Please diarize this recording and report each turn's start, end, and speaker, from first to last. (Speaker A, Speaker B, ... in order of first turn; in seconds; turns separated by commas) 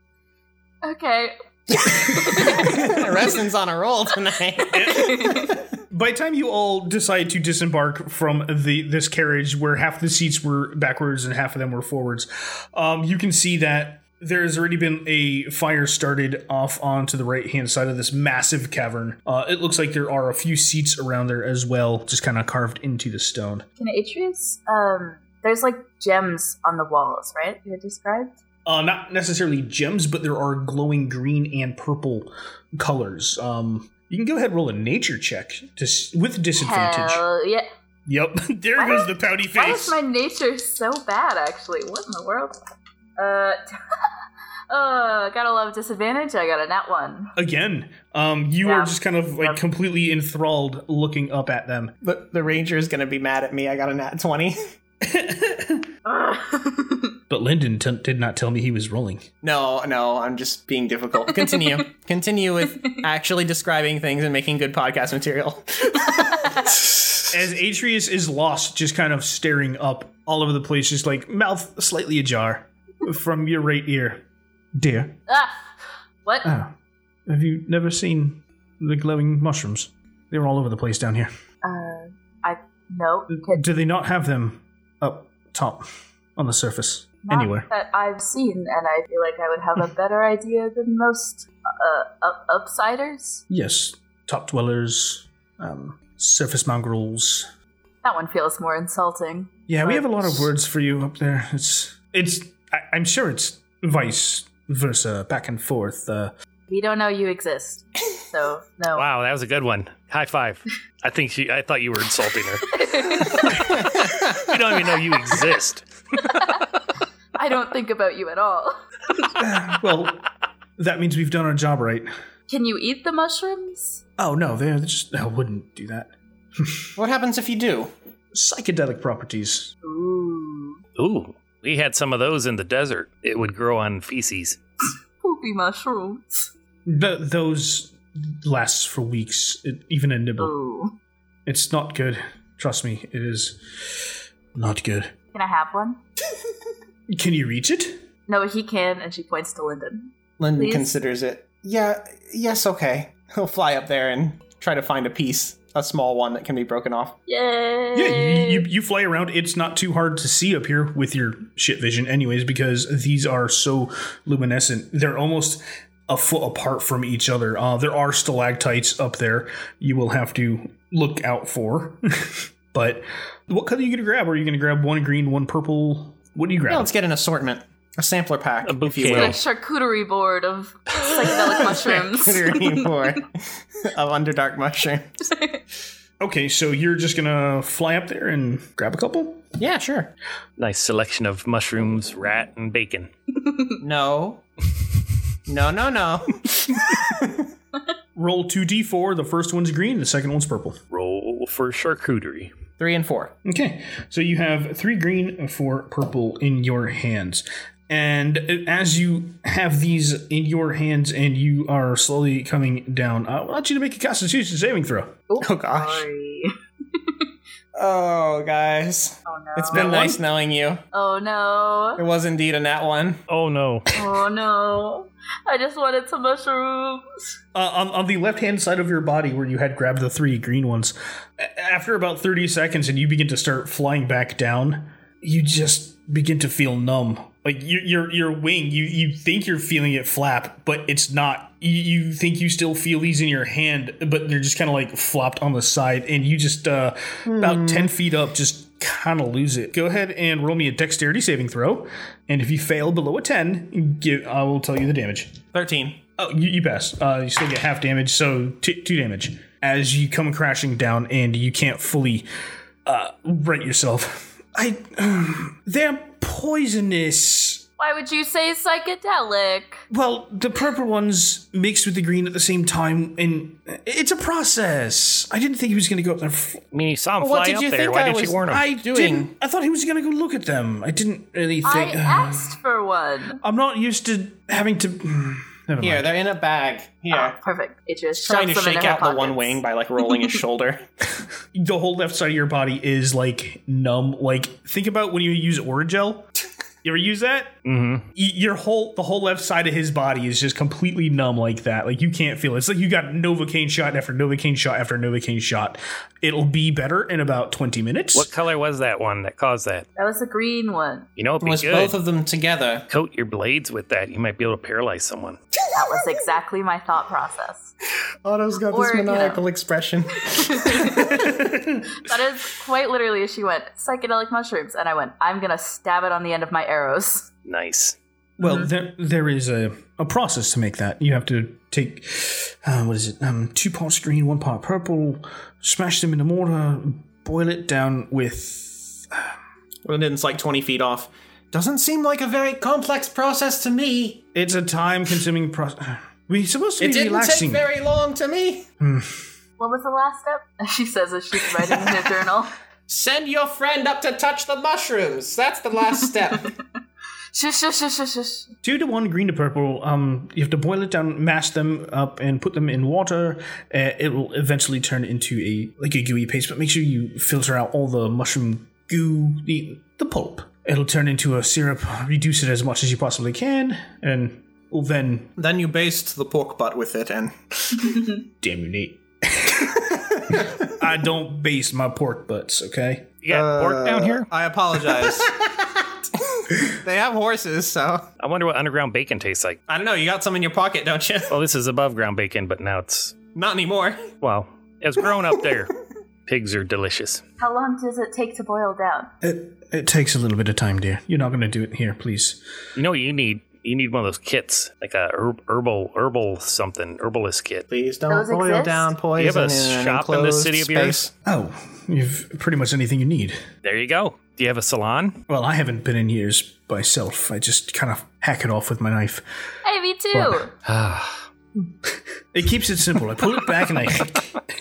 Speaker A: 0.8-3.1, Speaker B: 1.8-5.5, Speaker C: 2.6-3.0, Speaker C: 4.7-23.6, Speaker A: 4.8-5.5, Speaker A: 23.8-28.4, Speaker C: 28.6-37.2, Speaker A: 36.6-37.6, Speaker C: 38.0-40.0, Speaker A: 38.8-42.6, Speaker A: 43.2-44.0, Speaker A: 44.7-47.3, Speaker C: 47.4-51.9, Speaker A: 48.6-49.6, Speaker B: 52.0-54.6, Speaker C: 55.0-55.9, Speaker A: 56.0-57.1, Speaker C: 57.3-59.3, Speaker B: 59.4-66.9, Speaker C: 67.3-74.2, Speaker C: 74.7-75.2, Speaker A: 75.3-75.6, Speaker C: 76.4-76.7, Speaker C: 77.3-81.3, Speaker A: 81.6-83.6, Speaker C: 83.3-87.7, Speaker A: 87.2-93.4, Speaker C: 93.5-97.5, Speaker A: 98.0-100.4, Speaker C: 99.7-106.3, Speaker A: 106.7-109.0, Speaker D: 108.9-116.3, Speaker A: 112.7-113.8, Speaker A: 116.3-116.6, Speaker A: 117.3-119.3, Speaker C: 119.3-120.2, Speaker C: 120.8-122.1, Speaker A: 122.5-124.0, Speaker C: 124.2-126.9, Speaker B: 127.0-127.9, Speaker C: 128.3-129.7, Speaker A: 129.8-130.8, Speaker D: 131.0-134.6, Speaker A: 135.2-136.5, Speaker C: 136.8-140.5, Speaker A: 140.4-140.9, Speaker C: 141.4-145.1, Speaker A: 145.3-146.0, Speaker C: 147.1-148.0, Speaker A: 148.3-150.9, Speaker B: 150.4-157.2, Speaker A: 157.3-158.6, Speaker C: 157.9-176.9, Speaker B: 176.7-179.4, Speaker D: 178.6-179.4, Speaker A: 179.1-182.9, Speaker B: 181.2-185.2, Speaker A: 185.3-185.6, Speaker C: 186.2-189.4, Speaker B: 189.6-190.1, Speaker D: 190.6-193.1, Speaker B: 193.8-194.4, Speaker B: 195.5-197.5, Speaker C: 198.2-200.8, Speaker D: 200.9-202.5, Speaker B: 202.8-203.3, Speaker C: 203.4-215.2, Speaker A: 215.3-217.2, Speaker B: 215.4-216.1, Speaker B: 217.7-220.8, Speaker A: 219.2-219.9, Speaker C: 219.7-220.2, Speaker A: 220.9-222.0, Speaker B: 222.0-223.2, Speaker D: 223.3-223.9, Speaker A: 223.9-227.0, Speaker C: 227.5-255.4, Speaker B: 247.2-247.9, Speaker B: 255.5-256.0, Speaker C: 256.2-262.2, Speaker C: 262.8-267.6, Speaker A: 267.8-269.8, Speaker C: 269.9-276.6, Speaker D: 276.7-278.6, Speaker B: 277.2-279.3, Speaker C: 278.5-282.6, Speaker A: 281.6-283.4, Speaker C: 283.4-286.1, Speaker B: 285.8-287.4, Speaker A: 287.1-289.6, Speaker B: 288.1-290.8, Speaker C: 291.5-296.3, Speaker C: 296.8-297.5, Speaker D: 297.6-298.1, Speaker C: 298.1-308.3, Speaker D: 308.1-309.9, Speaker A: 309.9-311.1, Speaker D: 311.2-312.0, Speaker B: 311.4-312.9, Speaker D: 312.9-315.4, Speaker A: 315.7-317.7, Speaker B: 318.2-321.3, Speaker A: 318.7-319.4, Speaker A: 320.3-321.3, Speaker C: 321.1-321.9, Speaker A: 321.9-327.3, Speaker D: 327.4-328.0, Speaker C: 328.4-339.3, Speaker A: 328.4-328.7, Speaker B: 339.8-344.2, Speaker C: 344.3-347.7, Speaker B: 346.8-348.7, Speaker C: 348.8-349.2, Speaker A: 349.6-352.5, Speaker B: 352.9-356.5, Speaker A: 357.3-358.5, Speaker C: 358.6-375.3, Speaker B: 375.4-378.0, Speaker C: 378.4-383.1, Speaker B: 379.7-380.7, Speaker D: 383.2-384.3, Speaker B: 383.3-388.1, Speaker D: 388.2-389.6, Speaker B: 389.7-391.3, Speaker D: 391.3-393.1, Speaker B: 393.3-394.1, Speaker D: 394.2-395.7, Speaker D: 396.2-397.2, Speaker A: 397.4-399.1, Speaker C: 399.2-402.4, Speaker D: 402.8-407.6, Speaker B: 407.7-411.1, Speaker A: 408.1-408.9, Speaker D: 409.1-411.1, Speaker C: 411.2-413.4, Speaker D: 413.6-415.2, Speaker C: 415.3-419.2, Speaker A: 419.6-420.5, Speaker C: 420.1-420.5, Speaker D: 420.6-421.2, Speaker C: 422.3-424.4